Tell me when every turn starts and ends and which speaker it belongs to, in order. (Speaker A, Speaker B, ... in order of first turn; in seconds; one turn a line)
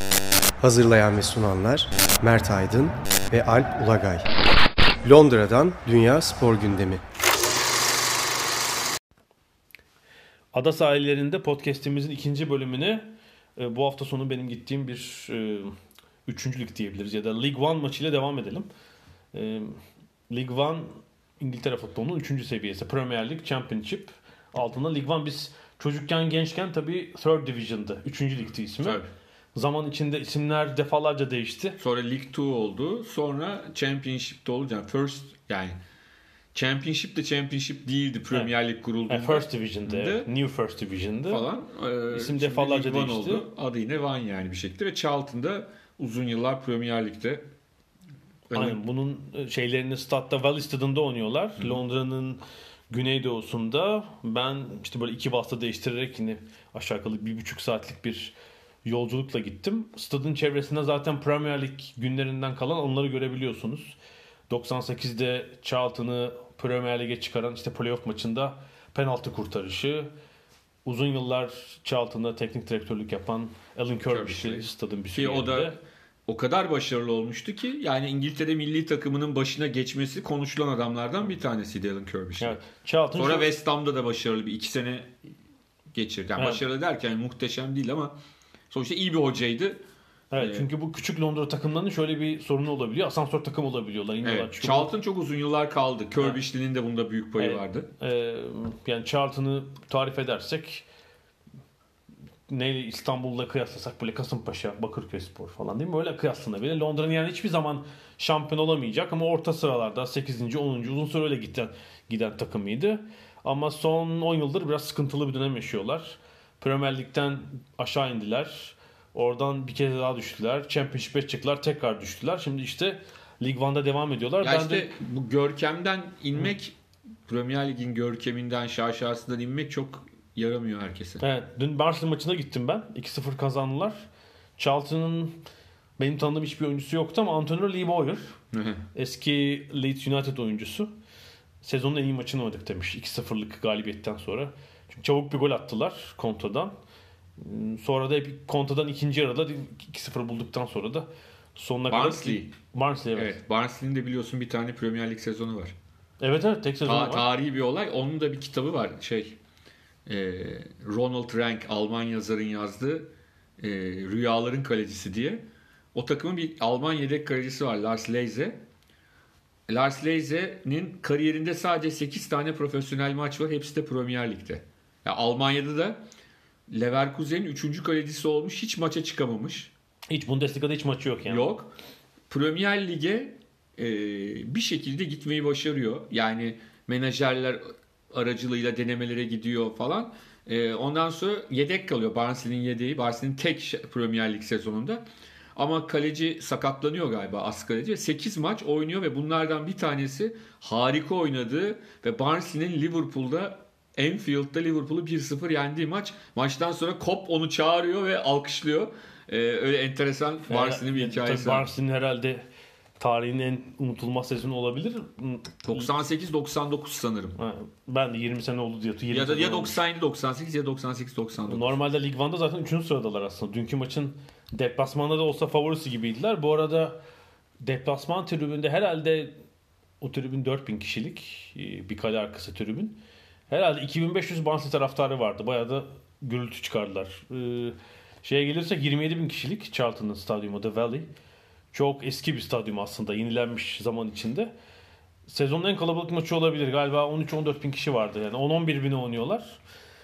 Speaker A: 0.6-4.3
Speaker A: 5.0-7.0
Speaker B: 10.5-15.8
Speaker B: 16.3-18.7
Speaker B: 19.3-29.0
Speaker C: 28.8-29.1
Speaker B: 29.6-31.8
Speaker C: 31.8-35.8
Speaker C: 36.5-40.3
Speaker B: 39.1-41.5
Speaker C: 41.3-47.4
Speaker B: 42.1-43.5
Speaker C: 48.5-48.8
Speaker B: 48.5-58.3
Speaker B: 58.9-64.0
Speaker B: 64.5-70.1
Speaker B: 70.8-75.8
Speaker C: 74.1-82.6
Speaker B: 82.4-83.5
Speaker C: 83.1-85.1
Speaker C: 85.9-88.2
Speaker B: 86.4-86.6
Speaker C: 88.7-89.8
Speaker B: 90.3-94.9
Speaker C: 90.4-90.7
Speaker C: 94.2-97.9
Speaker B: 97.4-100.9
Speaker B: 102.5-124.9
Speaker C: 124.4-126.8
Speaker C: 127.3-131.2
Speaker B: 131.2-134.0
Speaker B: 134.6-135.4
Speaker B: 136.0-138.3
Speaker C: 138.5-138.8
Speaker B: 138.9-140.9
Speaker B: 141.6-146.7
Speaker B: 147.4-153.4
Speaker C: 151.9-152.5
Speaker C: 153.1-155.8
Speaker B: 156.2-157.3
Speaker C: 156.8-159.4
Speaker C: 160.1-168.6
Speaker C: 169.7-176.0
Speaker C: 176.7-179.7
Speaker B: 180.1-181.5
Speaker C: 181.3-181.7
Speaker C: 182.3-195.1
Speaker C: 195.6-211.7
Speaker B: 210.5-212.4
Speaker B: 213.0-215.9
Speaker C: 215.7-217.4
Speaker B: 217.4-219.8
Speaker C: 219.1-221.7
Speaker B: 221.5-227.0
Speaker B: 227.6-229.3
Speaker B: 230.0-241.1
Speaker B: 241.7-244.5
Speaker B: 245.3-249.6